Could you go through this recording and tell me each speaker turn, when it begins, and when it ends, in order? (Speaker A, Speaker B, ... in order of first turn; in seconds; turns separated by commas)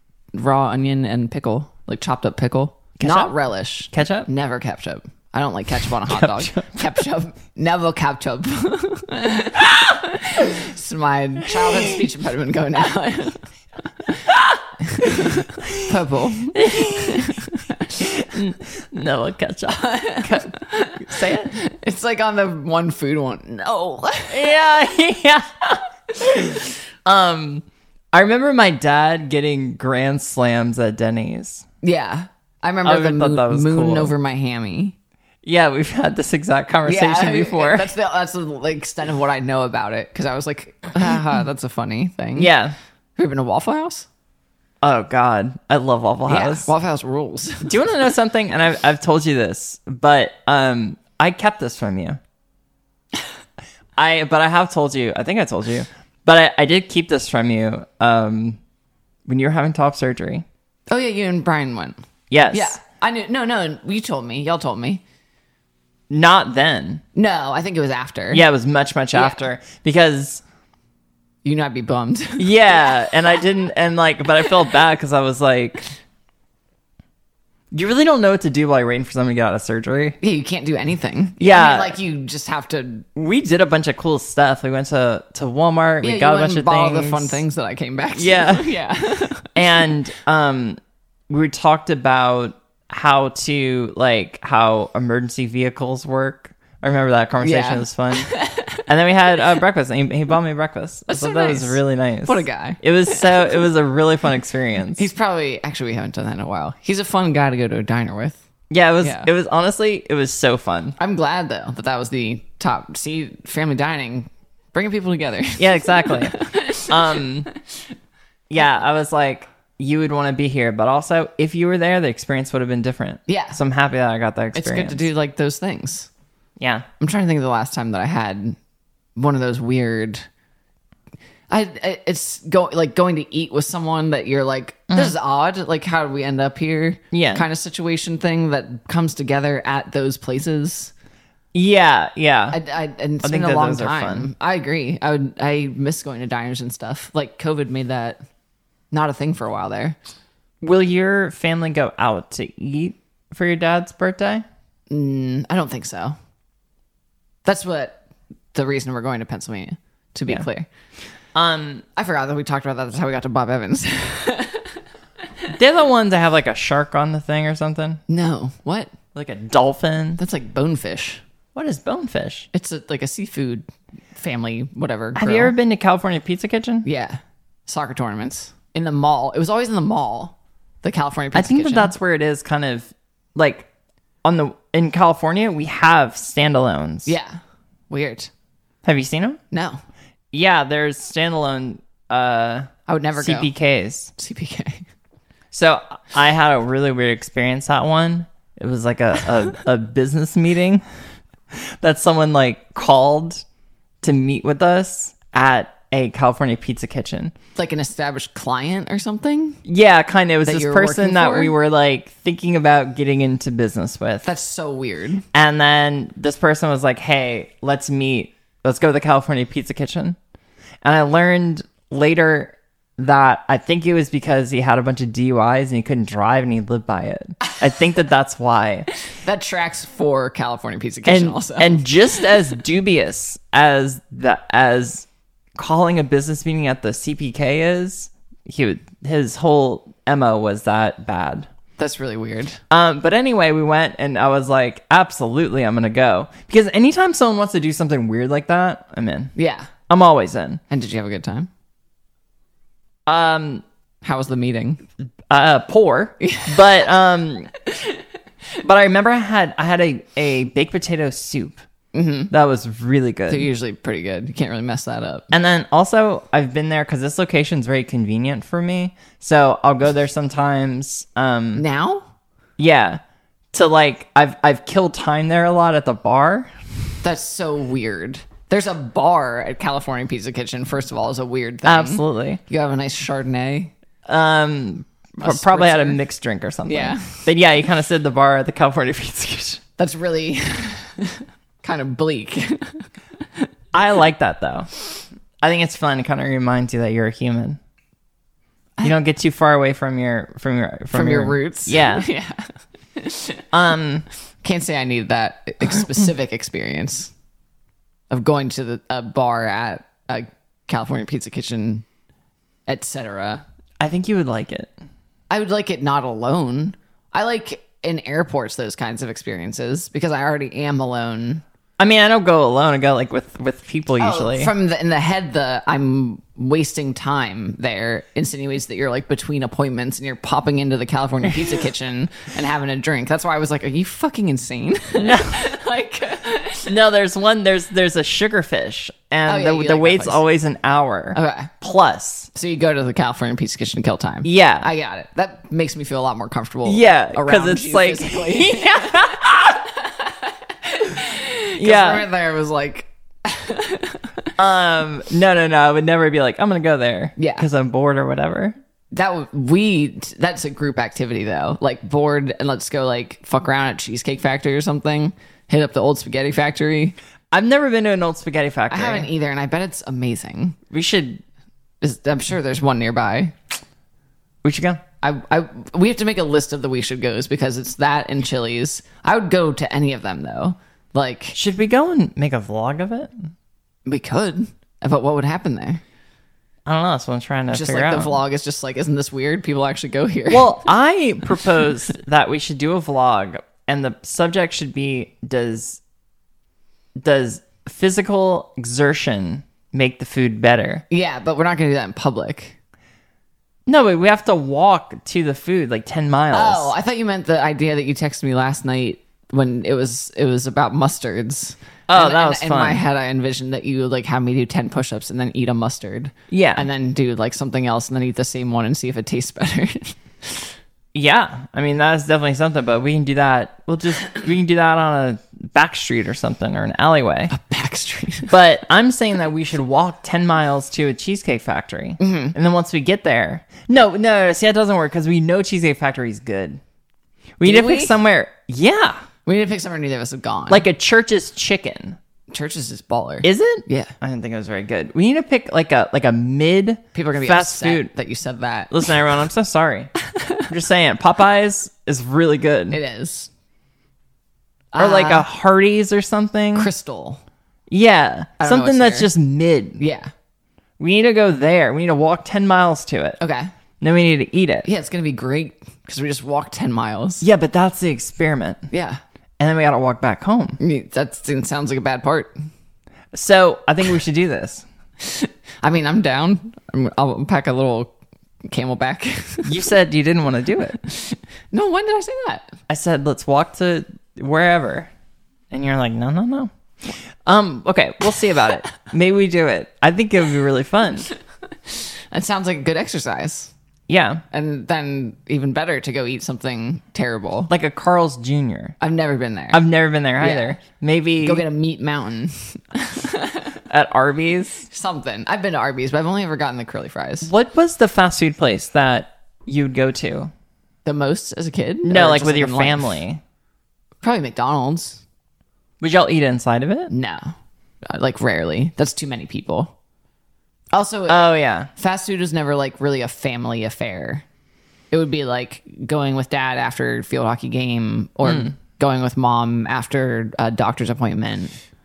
Speaker A: 0.3-13.4, Speaker B: 3.0-3.3, Speaker B: 3.9-4.3, Speaker B: 6.0-7.0, Speaker A: 14.8-17.9, Speaker B: 15.2-15.9, Speaker B: 16.5-17.4, Speaker B: 17.9-21.6, Speaker A: 19.7-24.6, Speaker B: 24.3-31.6, Speaker A: 31.8-34.9, Speaker B: 32.8-34.1, Speaker B: 35.4-37.9, Speaker A: 36.9-42.5, Speaker B: 42.4-42.8, Speaker A: 43.1-44.1, Speaker B: 44.8-46.7, Speaker A: 46.3-47.8, Speaker B: 47.6-52.2, Speaker B: 54.0-58.6, Speaker B: 59.3-60.4, Speaker A: 60.9-62.0, Speaker B: 62.3-62.8, Speaker A: 62.5-65.0, Speaker B: 66.1-67.0, Speaker A: 67.1-68.4, Speaker B: 68.3-70.4, Speaker A: 69.1-69.4, Speaker A: 71.4-72.5, Speaker B: 72.4-75.9, Speaker B: 77.7-80.2, Speaker A: 80.2-83.1, Speaker B: 81.4-82.0, Speaker B: 83.2-87.4, Speaker A: 86.0-89.5, Speaker B: 88.2-88.7, Speaker B: 89.5-90.8, Speaker B: 91.3-105.0, Speaker A: 97.4-98.8, Speaker A: 101.1-103.6, Speaker A: 105.0-108.4, Speaker B: 108.7-111.0, Speaker A: 109.0-109.3, Speaker A: 111.0-117.2, Speaker B: 115.6-117.5, Speaker B: 118.5-125.1, Speaker A: 123.3-123.6, Speaker A: 124.5-126.1, Speaker B: 126.6-126.8, Speaker A: 127.0-128.6, Speaker A: 129.2-130.2, Speaker A: 131.5-140.9, Speaker B: 137.1-137.4, Speaker B: 141.5-142.6, Speaker A: 142.5-148.2, Speaker B: 143.2-144.3, Speaker A: 148.9-150.0, Speaker B: 150.6-154.4, Speaker A: 154.9-156.1, Speaker A: 157.4-158.0, Speaker A: 158.5-160.7, Speaker B: 161.3-161.8, Speaker A: 161.9-164.7, Speaker B: 165.5-168.0, Speaker A: 168.1-168.9, Speaker B: 169.1-170.2, Speaker A: 170.2-171.2, Speaker B: 171.5-172.5, Speaker A: 172.5-175.5, Speaker B: 175.1-176.8, Speaker A: 176.8-181.9, Speaker B: 181.3-183.7, Speaker B: 184.2-187.1, Speaker A: 187.1-188.3, Speaker B: 188.8-189.4, Speaker A: 189.5-189.8, Speaker B: 190.3-194.1, Speaker A: 192.9-193.5, Speaker A: 194.2-194.8, Speaker B: 195.5-200.8, Speaker B: 201.5-203.4, Speaker B: 204.0-207.3, Speaker A: 207.6-209.6, Speaker B: 209.7-214.2, Speaker A: 210.4-211.5, Speaker A: 214.2-215.2, Speaker B: 215.3-220.2, Speaker B: 220.8-228.9, Speaker A: 229.2-231.8, Speaker B: 231.1-241.5, Speaker A: 241.8-242.6, Speaker B: 242.7-249.3, Speaker A: 249.3-249.7, Speaker B: 249.9-250.6, Speaker A: 250.7-251.5, Speaker B: 253.1-253.6, Speaker A: 254.0-254.8, Speaker B: 255.3-257.5, Speaker A: 256.2-256.7, Speaker B: 258.6-261.6, Speaker A: 261.9-262.3, Speaker B: 262.3-263.5, Speaker A: 263.3-265.3, Speaker B: 265.3-271.6, Speaker A: 271.6-272.1, Speaker B: 272.6-273.0, Speaker B: 273.5-276.5, Speaker A: 277.0-283.7, Speaker B: 281.6-282.4, Speaker B: 284.1-289.6, Speaker A: 285.2-286.0, Speaker A: 286.7-287.2, Speaker A: 289.8-292.8, Speaker B: 293.7-294.7, Speaker B: 295.4-297.6, Speaker B: 298.8-302.1, Speaker A: 300.9-302.4, Speaker A: 302.9-303.4, Speaker B: 303.5-304.0, Speaker A: 304.4-307.1, Speaker A: 308.1-311.8, Speaker A: 312.7-313.4, Speaker B: 313.8-314.7, Speaker A: 315.3-321.4, Speaker B: 321.8-324.5, Speaker A: 324.0-336.8, Speaker B: 335.0-335.5, Speaker B: 336.7-342.3, Speaker A: 339.3-340.2, Speaker A: 341.1-341.5, Speaker A: 342.3-354.3, Speaker B: 344.2-344.7, Speaker B: 346.6-349.7, Speaker B: 351.6-352.0, Speaker B: 354.4-358.6, Speaker A: 357.2-357.5, Speaker A: 358.9-366.9, Speaker B: 367.3-369.1, Speaker A: 368.7-370.6, Speaker B: 370.7-371.2, Speaker A: 371.8-373.3, Speaker B: 374.4-374.8, Speaker A: 375.0-381.4, Speaker B: 381.3-383.3, Speaker A: 383.9-385.8, Speaker B: 386.6-388.2, Speaker A: 387.5-390.6, Speaker B: 390.3-395.8, Speaker B: 397.0-400.8, Speaker A: 400.9-402.6, Speaker B: 403.7-406.7, Speaker A: 406.3-420.4, Speaker B: 411.9-412.8, Speaker B: 416.3-416.6, Speaker B: 420.9-427.3, Speaker A: 427.3-428.3, Speaker B: 428.3-436.6, Speaker A: 432.0-432.4, Speaker B: 437.4-439.0, Speaker A: 437.4-437.9, Speaker A: 439.2-440.6, Speaker B: 440.5-442.0, Speaker A: 442.3-443.9, Speaker B: 443.2-447.9, Speaker A: 446.9-448.9, Speaker B: 448.7-449.9, Speaker B: 450.4-452.8, Speaker A: 452.7-453.3, Speaker A: 454.7-455.2, Speaker B: 454.8-456.7, Speaker A: 456.5-457.2, Speaker B: 457.7-459.8, Speaker A: 458.4-459.1, Speaker A: 459.8-460.1, Speaker B: 460.8-463.2, Speaker A: 463.2-463.5, Speaker B: 463.8-464.7, Speaker A: 464.6-467.2, Speaker B: 467.2-468.6, Speaker A: 468.7-469.0, Speaker B: 469.4-470.6, Speaker A: 470.6-472.3, Speaker B: 473.1-474.6, Speaker A: 475.0-477.9, Speaker A: 478.5-479.5, Speaker B: 479.4-480.8, Speaker A: 480.8-482.5, Speaker B: 482.7-484.9, Speaker B: 485.5-491.1, Speaker A: 492.1-493.5, Speaker B: 493.9-494.2, Speaker A: 494.3-497.5, Speaker B: 497.5-498.8, Speaker A: 498.8-499.6, Speaker B: 499.5-501.4, Speaker A: 500.2-500.6, Speaker A: 501.2-503.6, Speaker B: 503.7-504.7, Speaker A: 504.7-507.3, Speaker B: 507.2-510.3, Speaker A: 510.8-513.0, Speaker B: 511.8-513.2, Speaker A: 514.0-515.0, Speaker B: 515.8-516.9, Speaker A: 516.9-517.3, Speaker A: 517.9-519.7, Speaker A: 520.7-524.2, Speaker B: 521.1-521.7, Speaker A: 524.9-531.5, Speaker B: 528.2-528.5